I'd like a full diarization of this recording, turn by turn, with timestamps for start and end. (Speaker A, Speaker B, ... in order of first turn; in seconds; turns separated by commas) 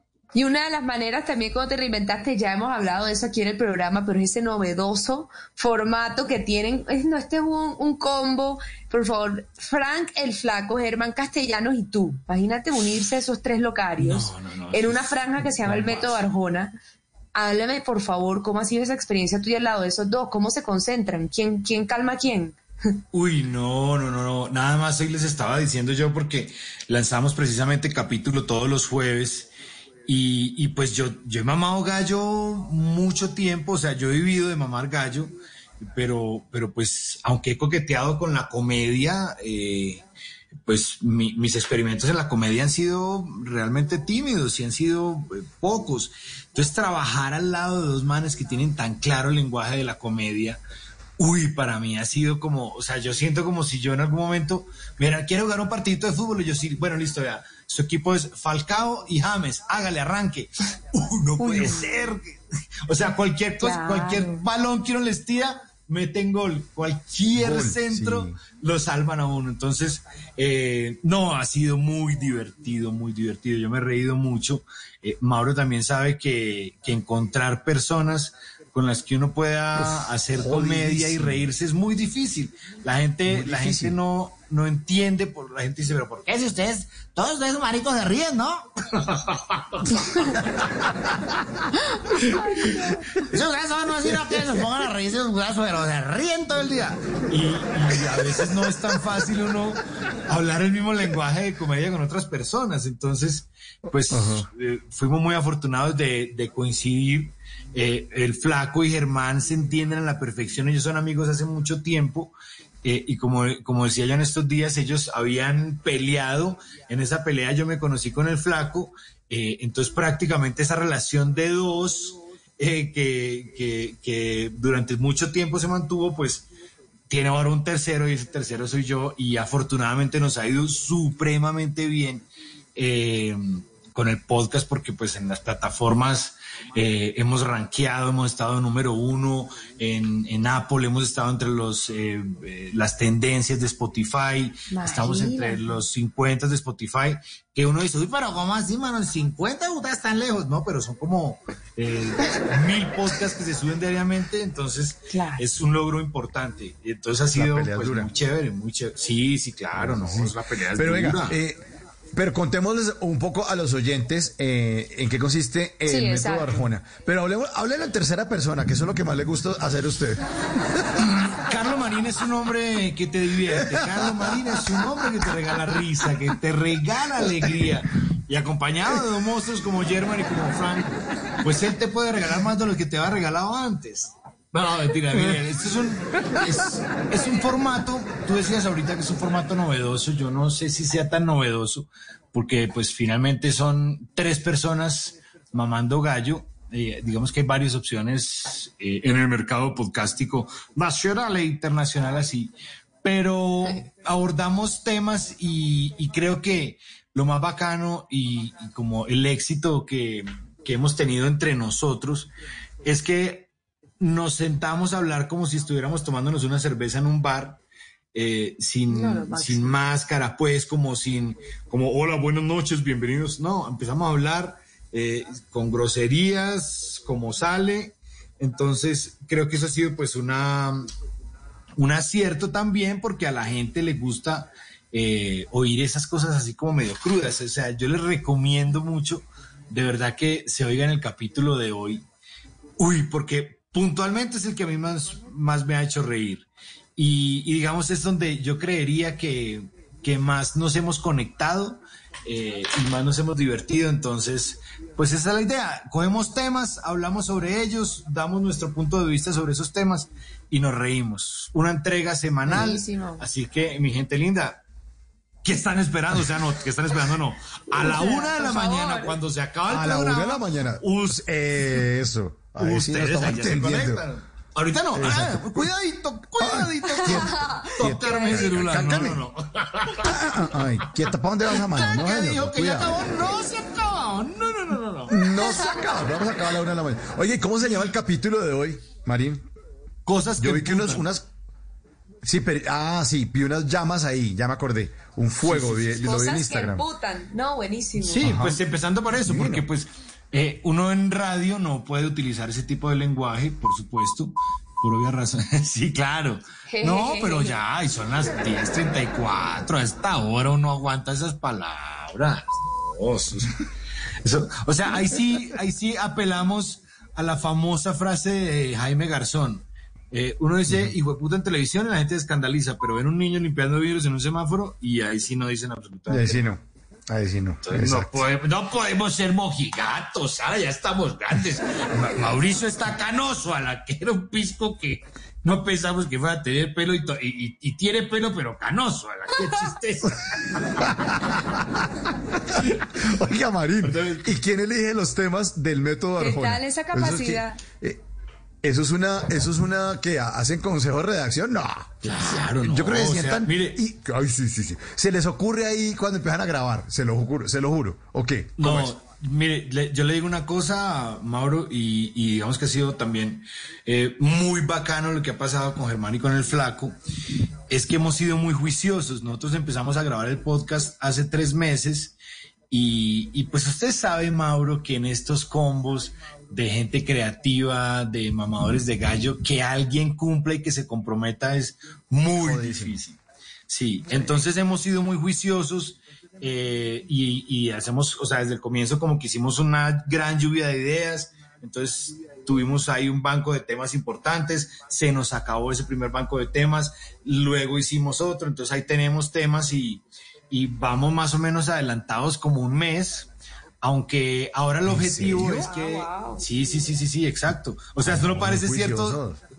Speaker A: 0.3-16.7, Speaker B: 14.0-16.3, Speaker A: 17.3-22.6, Speaker B: 23.1-29.5, Speaker B: 30.1-35.4, Speaker B: 35.9-40.0, Speaker B: 40.7-50.6, Speaker B: 51.2-62.4, Speaker A: 61.4-61.9, Speaker B: 62.9-91.0, Speaker A: 63.6-64.4, Speaker C: 67.3-68.4, Speaker C: 79.8-81.4, Speaker C: 83.2-84.0, Speaker B: 92.2-126.5, Speaker C: 104.1-104.5, Speaker B: 127.1-161.4, Speaker A: 144.7-145.8, Speaker A: 155.1-155.4, Speaker C: 157.3-158.1, Speaker C: 159.7-161.6, Speaker C: 162.1-170.2, Speaker A: 165.9-166.6, Speaker B: 171.0-180.9, Speaker C: 173.5-174.5, Speaker B: 181.4-202.5, Speaker B: 203.0-212.3, Speaker B: 212.8-213.5, Speaker B: 214.0-217.6, Speaker B: 218.1-230.9, Speaker A: 218.9-219.7, Speaker B: 231.8-242.0, Speaker B: 242.8-264.6, Speaker A: 262.4-263.3, Speaker B: 265.4-271.2, Speaker A: 267.7-269.2, Speaker C: 269.7-274.0, Speaker B: 272.6-280.2, Speaker C: 274.9-275.7, Speaker C: 276.4-279.2, Speaker A: 277.0-278.7, Speaker C: 280.0-283.0, Speaker B: 281.8-285.2, Speaker C: 285.1-289.4, Speaker A: 285.3-286.0, Speaker B: 290.0-291.1, Speaker C: 290.4-291.3, Speaker C: 292.2-296.9, Speaker B: 295.4-296.0, Speaker A: 296.0-298.3, Speaker B: 297.9-313.6, Speaker C: 298.2-298.6, Speaker C: 299.2-299.7, Speaker A: 306.7-307.6, Speaker B: 314.2-326.5, Speaker C: 320.7-320.9, Speaker C: 326.1-328.2, Speaker B: 327.6-340.9, Speaker C: 340.9-341.8, Speaker C: 342.5-348.0, Speaker B: 343.8-344.3, Speaker A: 346.2-347.6, Speaker C: 348.6-358.9, Speaker B: 352.0-353.8, Speaker B: 358.6-366.9, Speaker B: 367.7-372.2, Speaker B: 372.7-403.3, Speaker C: 382.4-383.0, Speaker B: 403.8-409.2, Speaker C: 404.8-405.7, Speaker A: 405.7-406.4, Speaker C: 408.0-409.4